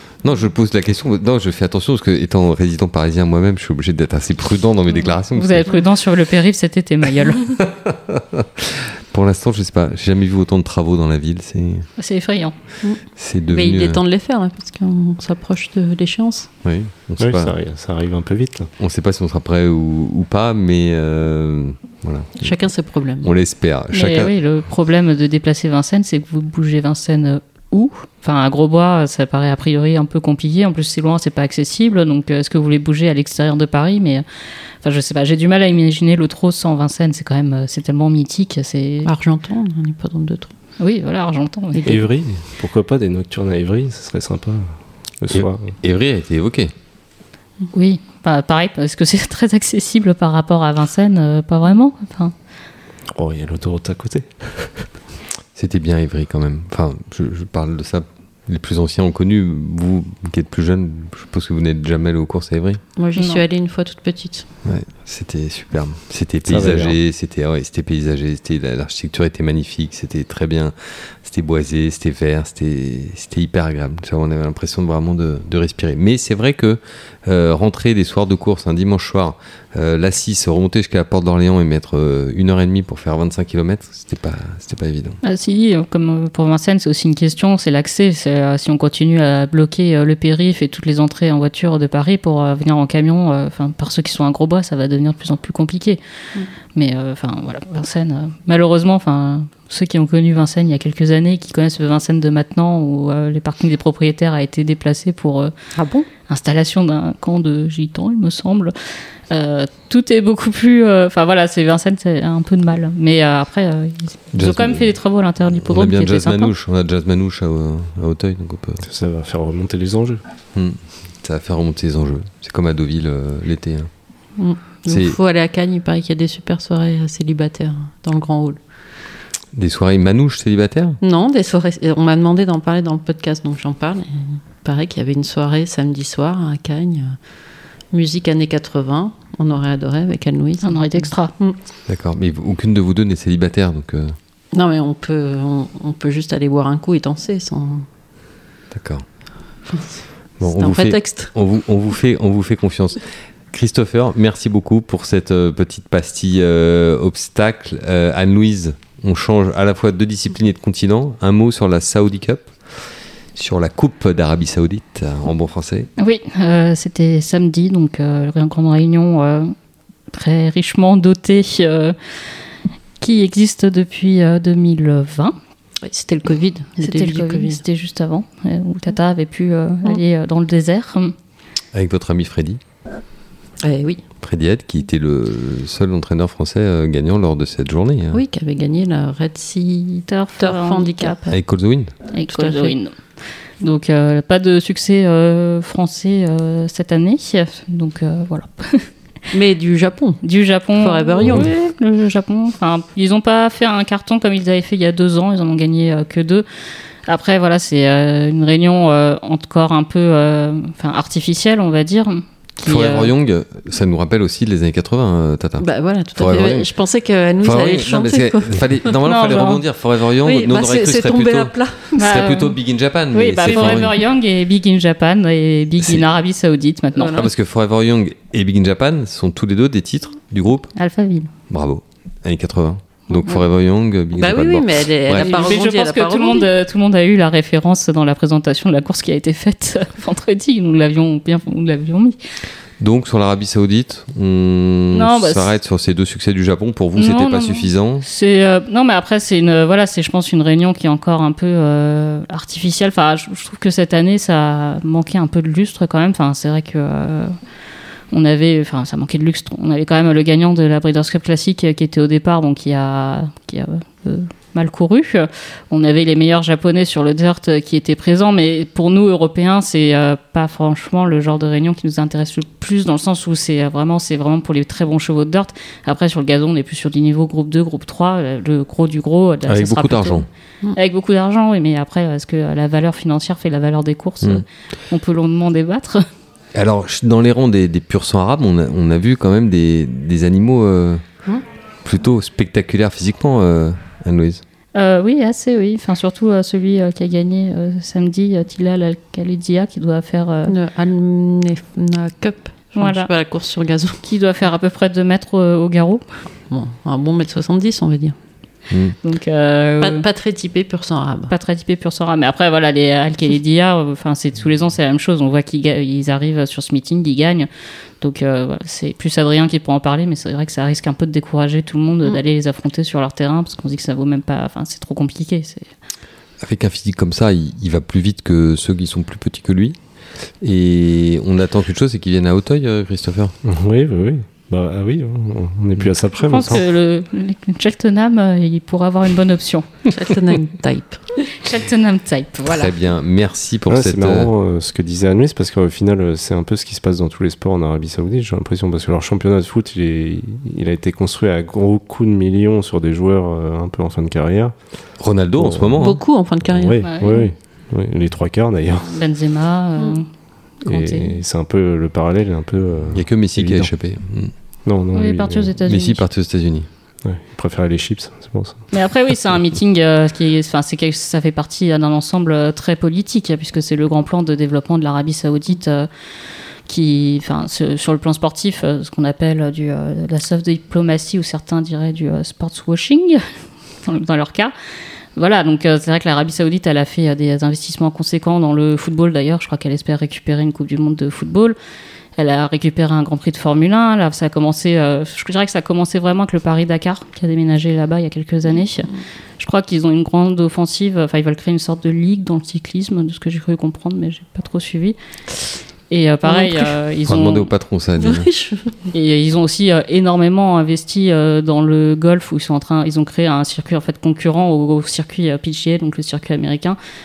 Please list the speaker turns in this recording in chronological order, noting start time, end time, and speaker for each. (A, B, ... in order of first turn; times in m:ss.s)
0:00.2-0:05.7 A
0:05.3-0:07.6 B
0:07.6-0:11.9 A
0:12.0-0:12.6 B
0:12.8-0:16.5 C
0:13.2-0:14.0 A
0:16.6-0:17.5 A
0:17.2-0:18.7 D
0:18.8-0:22.6 A
0:22.4-0:23.3 C
0:23.2-0:24.3 A
0:23.9-0:34.2 B
0:34.8-0:39.1 B
0:39.0-0:40.5 C
0:40.8-0:42.0 B
0:41.8-0:45.8 D
0:45.3-0:46.7 A
0:47.7-0:52.3 B
0:53.1-0:54.9 D
0:55.6-1:02.8 A
1:03.0-1:04.5 C
1:03.2-1:03.4 B
1:04.6-1:25.2 A
1:06.4-1:07.0 D
1:25.2-1:36.0 B
1:36.7-1:45.5 B
1:45.7-1:46.1 C
1:46.3-1:48.7 B
1:49.3-1:56.5 B
1:54.3-1:54.9 A
1:55.6-1:58.8 A
1:58.8-2:00.2 D
2:00.5-2:03.9 A
2:04.4-2:08.6 C
2:04.9-2:05.2 A
2:09.5-2:11.0 A
2:11.0-2:17.2 C
2:17.9-2:21.6 C
2:20.6-2:21.3 B
2:21.9-2:24.2 A
2:24.5-2:27.9 C
2:28.7-2:29.0 A
2:29.7-2:31.3 C
2:30.4-2:42.5 A
2:43.3-2:45.9 A
2:46.0-2:49.5 B
2:50.1-2:52.3 B
2:53.0-2:55.4 B
2:55.8-2:57.6 C
2:56.8-3:01.1 B
3:01.7-3:02.6 A
3:03.6-3:04.0 C
3:04.2-3:08.2 A
3:08.1-3:11.3 C
3:10.1-3:11.4 B
3:11.3-3:11.9 A
3:12.1-3:18.9 B
3:12.3-3:12.8 C
3:19.3-3:21.5 C
3:20.2-3:26.4 B
3:27.1-3:33.1 B
3:32.6-3:36.7 A
3:35.6-3:38.9 C
3:37.4-3:44.0 A
3:39.0-3:39.6 B
3:40.2-3:42.0 C
3:42.0-3:42.6 B
3:43.1-3:47.3 B
3:43.5-3:43.8 C
3:47.0-3:47.3 C
3:47.1-3:50.7 A
3:50.8-3:51.3 B
3:51.5-3:55.5 A
3:53.1-3:53.4 B
3:54.2-3:56.5 C
3:55.1-4:02.2 B
4:02.8-4:08.0 A
4:04.9-4:05.4 B
4:07.0-4:17.3 B
4:18.1-4:46.0 B
4:39.5-4:40.3 A
4:46.5-4:51.0 A
4:51.8-4:54.4 A
4:54.7-5:00.5 B
5:00.4-5:04.0 C
5:02.8-5:03.1 B
5:04.0-5:06.0 B
5:06.5-5:08.2 C
5:08.7-5:09.0 A
5:09.0-5:10.0 B
5:09.8-5:11.3 C
5:11.3-5:17.5 B
5:18.0-5:25.7 B
5:26.4-5:29.8 A
5:30.4-5:33.3 A
5:33.4-5:36.6 D
5:36.2-5:39.7 B
5:39.9-5:41.0 C
5:41.3-5:42.7 B
5:42.4-5:44.3 A
5:43.7-5:54.5 D
5:55.0-5:56.0 A
5:55.4-5:55.9 D
5:55.8-5:57.2 C
5:56.4-5:59.0 D
5:56.8-5:57.3 B
5:58.8-6:00.1 B
6:00.6-6:01.2 B
6:00.6-6:03.7 D
6:02.9-6:04.3 A
6:04.6-6:05.6 D
6:04.9-6:06.0 B
6:05.7-6:06.7 A
6:07.0-6:08.6 D
6:08.7-6:15.9 B
6:16.7-6:23.2 B
6:23.8-6:24.5 B
6:25.2-6:31.6 B
6:32.2-6:45.0 B
6:45.9-6:47.5 B
6:46.2-6:46.7 C
6:47.0-6:48.3 A
6:48.0-6:48.7 C
6:48.9-6:56.8 B